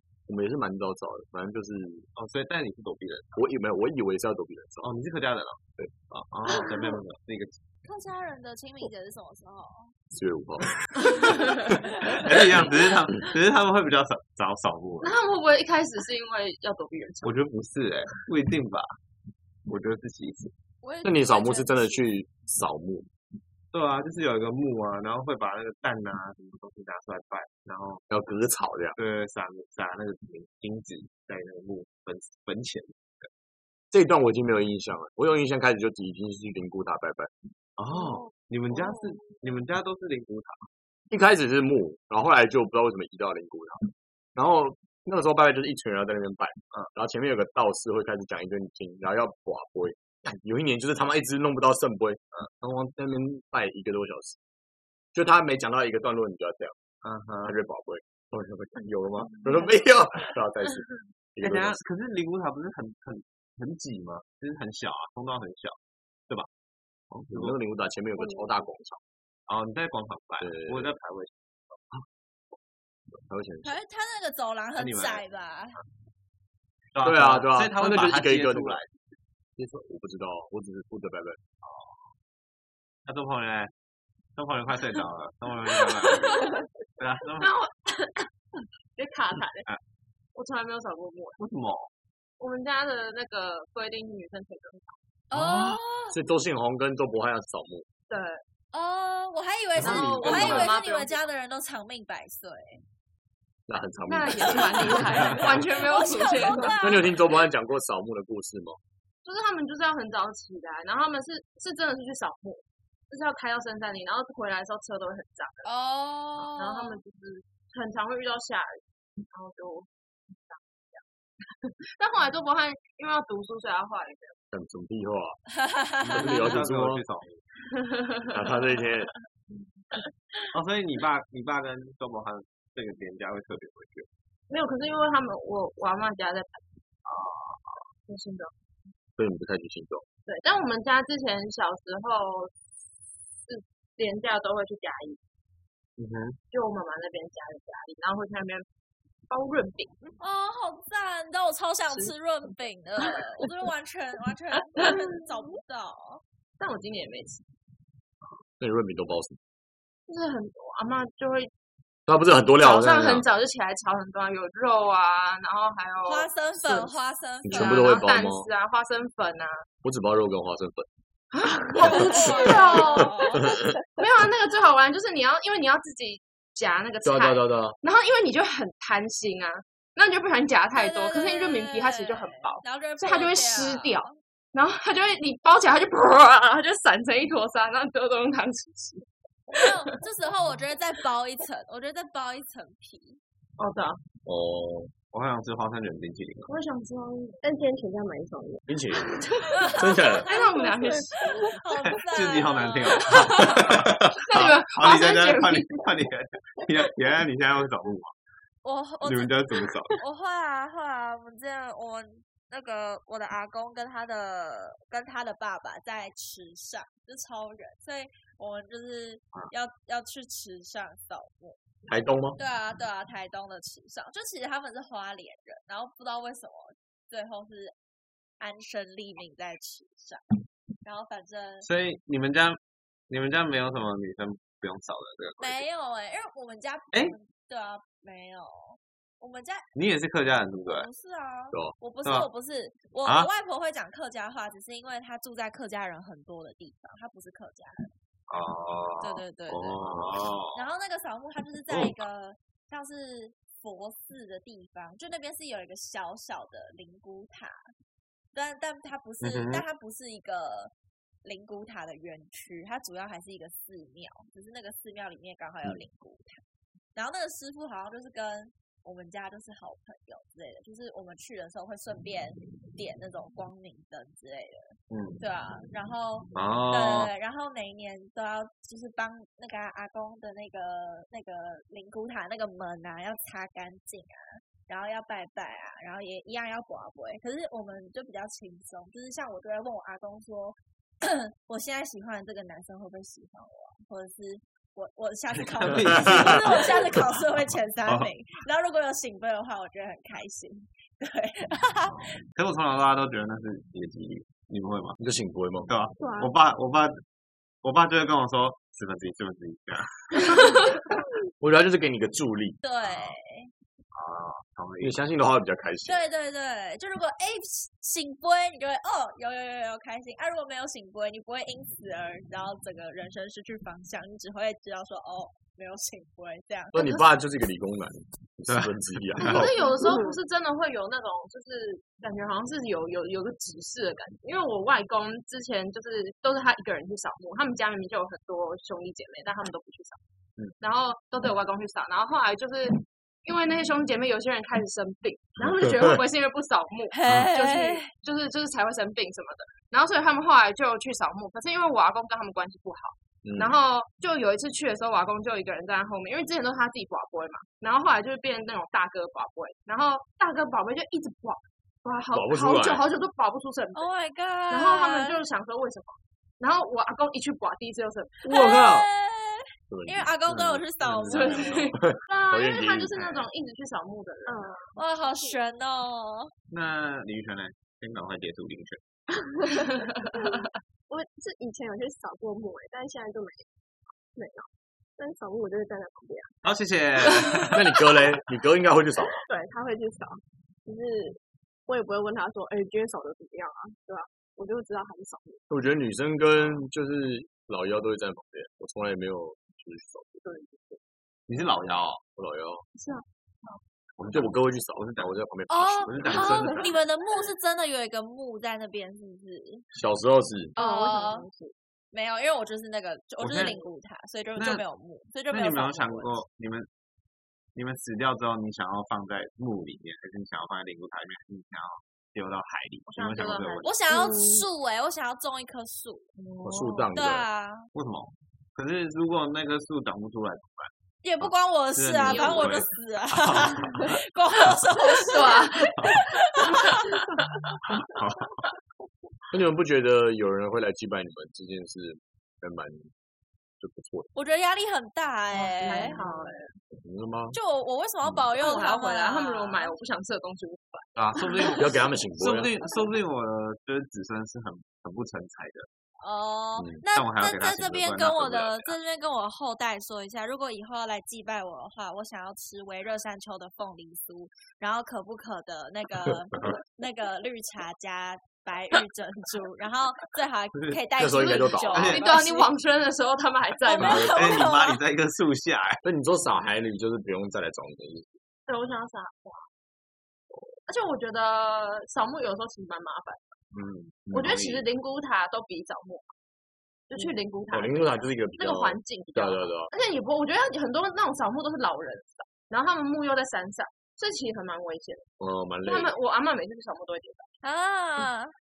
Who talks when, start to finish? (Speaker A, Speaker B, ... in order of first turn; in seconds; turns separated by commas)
Speaker A: 0.3-2.1, Speaker B: 2.1-3.4, Speaker A: 3.3-4.9, Speaker B: 4.8-7.6, Speaker C: 7.8-9.9, Speaker A: 10.1-11.8, Speaker D: 11.2-11.5, Speaker B: 12.1-15.1, Speaker D: 15.0-17.4, Speaker B: 17.2-19.0, Speaker B: 19.7-20.5, Speaker C: 20.8-22.1, Speaker A: 21.0-23.1, Speaker B: 23.7-28.0, Speaker A: 28.1-29.0, Speaker B: 28.9-33.3, Speaker A: 33.9-37.3, Speaker B: 37.8-40.7, Speaker A: 41.1-54.4, Speaker A: 55.1-56.8, Speaker B: 57.0-57.6, Speaker A: 57.4-61.8, Speaker B: 61.4-65.8, Speaker B: 67.1-67.6, Speaker A: 67.3-69.0, Speaker B: 69.5-72.0, Speaker A: 70.4-70.9, Speaker A: 73.2-73.8, Speaker C: 73.6-75.8, Speaker B: 74.8-75.2, Speaker B: 76.9-79.2, Speaker A: 77.0-78.8, Speaker A: 79.6-81.4, Speaker B: 81.6-82.1, Speaker B: 83.0-83.7, Speaker B: 84.3-87.5, Speaker D: 87.4-88.3, Speaker D: 89.0-89.7, Speaker D: 90.3-91.4, Speaker B: 91.4-91.9, Speaker D: 92.4-95.0, Speaker C: 95.3-96.2, Speaker B: 95.3-95.8, Speaker A: 96.1-97.8, Speaker D: 98.1-98.4, Speaker C: 98.7-102.8, Speaker A: 99.8-100.6, Speaker B: 99.8-100.7, Speaker D: 99.8-101.2, Speaker A: 103.7-105.3, Speaker D: 104.1-106.8, Speaker C: 104.4-107.3, Speaker A: 106.8-108.8, Speaker D: 109.2-115.7, Speaker C: 115.6-117.0, Speaker D: 116.5-121.0, Speaker D: 121.6-124.4, Speaker A: 124.5-125.4, Speaker C: 125.5-126.5, Speaker B: 126.0-127.4, Speaker A: 126.0-127.0, Speaker D: 127.8-128.6, Speaker A: 128.3-129.1, Speaker B: 130.5-134.1, Speaker D: 134.5-136.8, Speaker B: 137.0-137.8, Speaker D: 138.1-138.5, Speaker A: 139.2-140.1, Speaker D: 140.2-142.5, Speaker D: 143.5-145.2, Speaker B: 146.0-146.4, Speaker D: 146.5-148.7, Speaker D: 149.3-150.0, Speaker C: 150.2-156.2, Speaker D: 156.6-157.5, Speaker A: 158.6-159.4, Speaker D: 160.1-161.5, Speaker A: 162.1-163.3, Speaker D: 162.6-166.9, Speaker C: 166.1-168.1, Speaker A: 167.4-168.5, Speaker D: 167.5-169.6, Speaker A: 169.8-170.9, Speaker D: 171.3-173.4, Speaker C: 171.8-173.4, Speaker A: 171.8-172.2, Speaker A: 172.8-173.8, Speaker D: 173.9-189.8, Speaker A: 177.0-177.8, Speaker C: 180.7-184.2, Speaker C: 189.5-193.2, Speaker D: 193.6-194.0, Speaker A: 194.2-194.9, Speaker B: 195.1-196.5, Speaker D: 196.4-197.4, Speaker E: 197.4-199.8, Speaker A: 198.7-200.3, Speaker C: 199.5-203.5, Speaker D: 200.2-201.3, Speaker E: 200.5-201.6, Speaker B: 201.7-208.1, Speaker D: 203.1-203.7, Speaker A: 203.6-204.1, Speaker D: 204.2-205.8, Speaker C: 208.6-209.4, Speaker B: 209.0-210.0, Speaker C: 210.0-221.6, Speaker A: 221.9-222.4, Speaker C: 222.4-227.8, Speaker C: 228.4-230.2, Speaker C: 230.8-231.7, Speaker B: 231.6-232.6, Speaker B: 233.1-235.6, Speaker C: 235.4-239.7, Speaker B: 239.8-240.9, Speaker C: 240.7-247.9, Speaker B: 243.0-243.3, Speaker B: 248.3-250.6, Speaker C: 249.0-257.7, Speaker C: 258.3-260.7, Speaker B: 259.2-259.6, Speaker C: 261.2-266.4, Speaker C: 266.9-302.0, Speaker B: 274.9-275.2, Speaker B: 276.3-277.1, Speaker B: 295.4-298.1, Speaker B: 301.9-305.0, Speaker A: 305.0-305.7, Speaker B: 305.7-307.0, Speaker E: 306.0-306.3, Speaker B: 307.6-310.4, Speaker A: 311.4-312.6, Speaker C: 312.6-313.5, Speaker B: 312.8-313.1, Speaker B: 313.9-315.1, Speaker A: 314.8-316.0, Speaker C: 315.9-327.0, Speaker A: 326.7-329.6, Speaker D: 329.2-340.0, Speaker E: 329.8-330.2, Speaker D: 340.6-363.9, Speaker A: 345.4-346.0, Speaker C: 346.9-347.9, Speaker A: 353.2-353.6, Speaker A: 362.1-362.9, Speaker C: 363.8-365.2, Speaker D: 364.5-368.2, Speaker A: 368.2-368.9, Speaker C: 368.3-371.7, Speaker A: 369.7-370.1, Speaker B: 370.3-371.7, Speaker D: 371.1-374.7, Speaker A: 371.7-373.2, Speaker E: 374.2-375.4, Speaker C: 374.8-376.3, Speaker B: 376.5-378.8, Speaker E: 379.2-383.5, Speaker E: 384.1-386.4, Speaker B: 386.4-387.6, Speaker A: 387.5-389.2, Speaker E: 389.2-395.4, Speaker A: 395.5-400.2, Speaker E: 400.2-400.8, Speaker B: 401.3-402.0, Speaker A: 402.1-402.6, Speaker D: 402.8-403.6, Speaker B: 404.0-405.2, Speaker A: 404.1-406.5, Speaker C: 405.5-409.6, Speaker B: 405.8-406.7, Speaker A: 409.7-410.5, Speaker C: 410.6-411.3, Speaker E: 410.6-411.5, Speaker C: 411.9-416.2, Speaker B: 413.2-413.6, Speaker B: 414.4-414.6, Speaker B: 415.3-416.7, Speaker B: 417.5-423.7, Speaker D: 422.9-423.8, Speaker C: 423.6-426.1, Speaker E: 423.9-424.5, Speaker D: 426.2-426.9, Speaker A: 426.4-427.3, Speaker C: 426.9-427.7, Speaker B: 427.7-434.0, Speaker C: 431.0-436.9, Speaker D: 432.0-432.6, Speaker D: 435.0-437.0, Speaker B: 437.7-438.4, Speaker A: 439.3-442.9, Speaker A: 443.6-444.1, Speaker C: 444.1-446.0, Speaker D: 445.3-446.6, Speaker E: 445.7-446.0, Speaker A: 446.7-447.4, Speaker C: 447.3-449.8, Speaker D: 448.4-450.9, Speaker B: 450.9-455.7, Speaker A: 451.6-452.5, Speaker C: 456.0-472.5, Speaker A: 456.6-456.8, Speaker B: 456.9-458.8, Speaker B: 470.5-470.8, Speaker A: 471.0-471.9, Speaker B: 471.7-472.0, Speaker D: 471.8-474.2, Speaker C: 473.6-474.8, Speaker B: 473.8-475.8, Speaker A: 475.8-478.2, Speaker D: 478.5-479.5, Speaker D: 480.7-483.4, Speaker B: 483.5-484.6, Speaker D: 484.1-486.1, Speaker D: 486.9-495.1, Speaker A: 487.5-489.7, Speaker A: 495.2-495.9, Speaker D: 495.6-497.3, Speaker C: 497.4-498.3